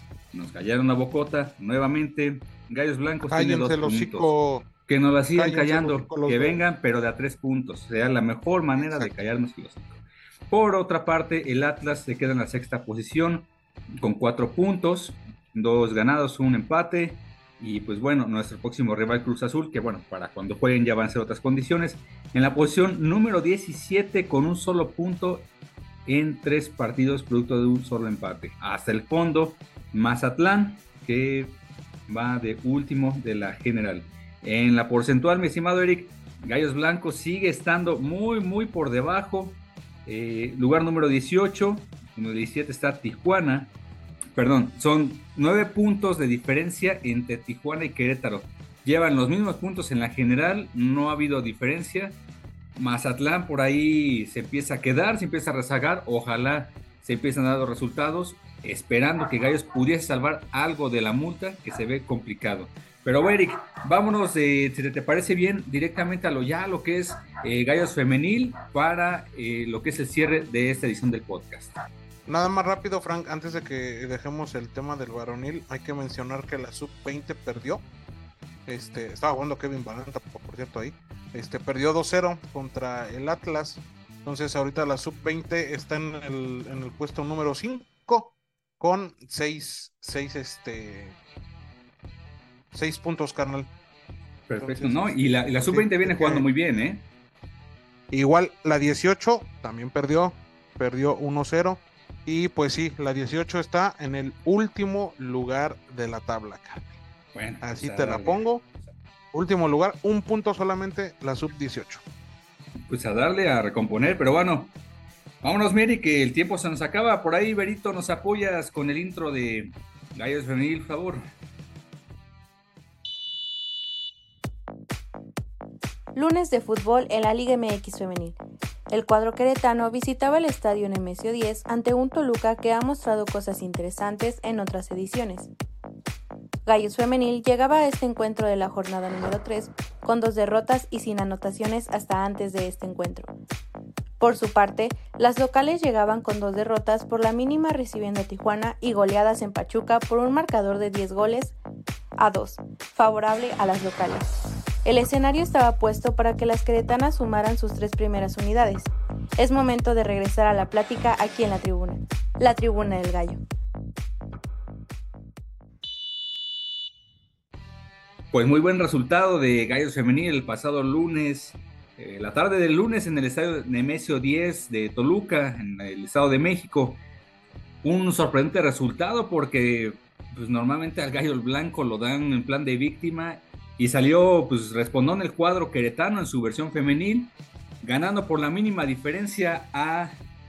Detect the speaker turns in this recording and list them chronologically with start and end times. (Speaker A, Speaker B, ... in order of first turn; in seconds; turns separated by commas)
Speaker A: 0.3-4.3, Speaker B: 3.3-4.7, Speaker A: 4.9-25.5, Speaker B: 5.3-6.6, Speaker B: 8.8-9.3, Speaker A: 26.1-31.6, Speaker A: 32.1-43.7, Speaker A: 44.4-52.2, Speaker A: 52.8-71.8, Speaker B: 72.3-77.8, Speaker B: 78.7-91.2, Speaker B: 92.7-93.7, Speaker A: 94.5-97.0, Speaker B: 94.6-96.5, Speaker B: 98.1-106.9, Speaker A: 107.3-108.9, Speaker B: 107.6-108.6, Speaker B: 109.3-112.0, Speaker A: 112.9-114.7, Speaker A: 115.4-121.2, Speaker C: 126.2-128.4, Speaker C: 128.9-135.5, Speaker C: 136.7-143.3, Speaker C: 144.2-151.6, Speaker C: 152.2-154.3, Speaker C: 154.8-163.4, Speaker A: 168.3-177.0, Speaker A: 177.8-190.2